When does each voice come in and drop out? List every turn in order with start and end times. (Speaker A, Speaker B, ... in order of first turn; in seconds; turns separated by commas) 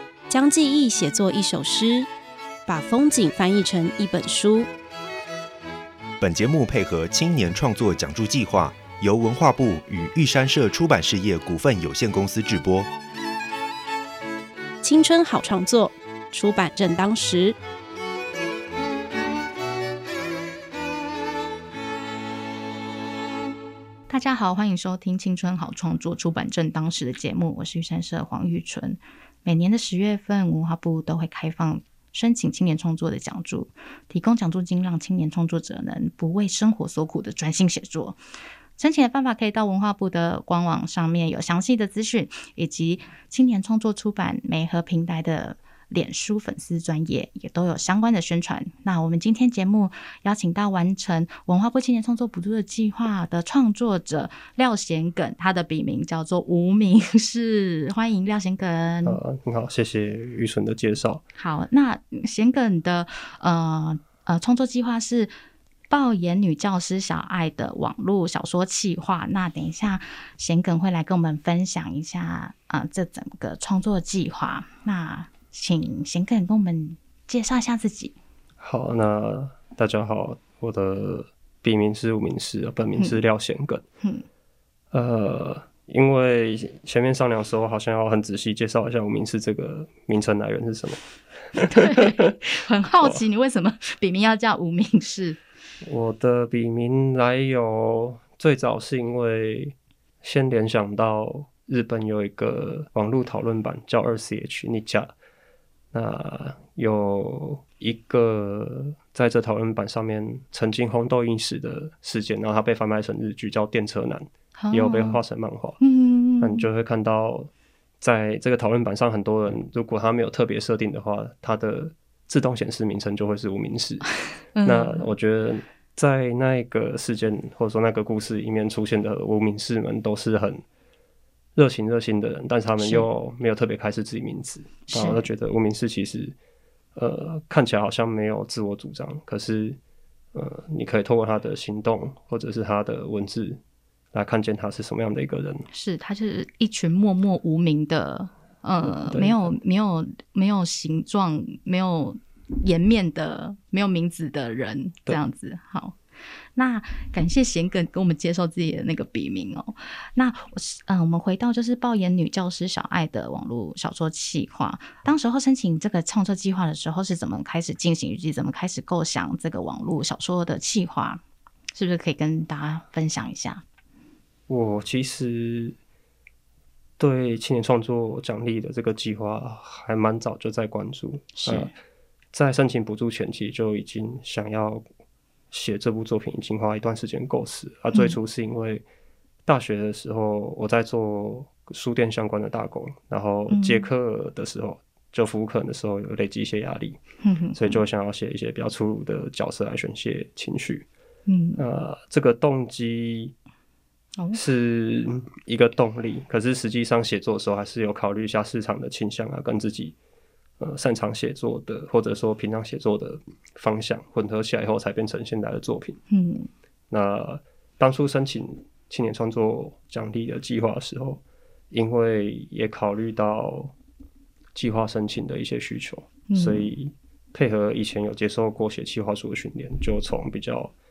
Speaker A: 0.3-2.1, Speaker A: 2.7-4.7, Speaker B: 6.2-12.9, Speaker A: 14.8-17.6, Speaker C: 24.1-38.2, Speaker C: 38.8-59.2, Speaker D: 59.0-61.2, Speaker C: 61.4-65.3, Speaker C: 65.9-78.1, Speaker D: 78.6-83.8, Speaker D: 84.9-93.2, Speaker C: 91.6-95.4, Speaker D: 95.8-105.1, Speaker D: 105.9-115.8, Speaker C: 114.6-115.2, Speaker C: 115.8-116.7, Speaker D: 116.4-117.5, Speaker D: 118.0-124.1, Speaker C: 124.5-125.0, Speaker D: 124.6-130.6, Speaker D: 131.6-136.3, Speaker C: 132.8-133.1, Speaker C: 134.9-135.2, Speaker D: 136.9-139.8, Speaker D: 140.3-143.6, Speaker D: 144.1-145.7, Speaker C: 145.7-156.0, Speaker D: 148.8-149.6, Speaker C: 156.5-171.2, Speaker C: 171.7-173.6, Speaker D: 174.5-175.8, Speaker D: 177.0-181.7, Speaker C: 181.3-181.7, Speaker D: 182.3-184.8, Speaker D: 185.5-188.8, Speaker D: 189.5-197.0, Speaker C: 193.5-193.9, Speaker C: 197.2-197.8, Speaker D: 197.5-200.9, Speaker C: 201.3-201.6, Speaker D: 201.6-203.3, Speaker D: 204.3-210.0, Speaker D: 210.6-216.0, Speaker C: 216.1-216.5, Speaker D: 216.9-223.7, Speaker D: 224.5-230.7, Speaker C: 226.3-226.7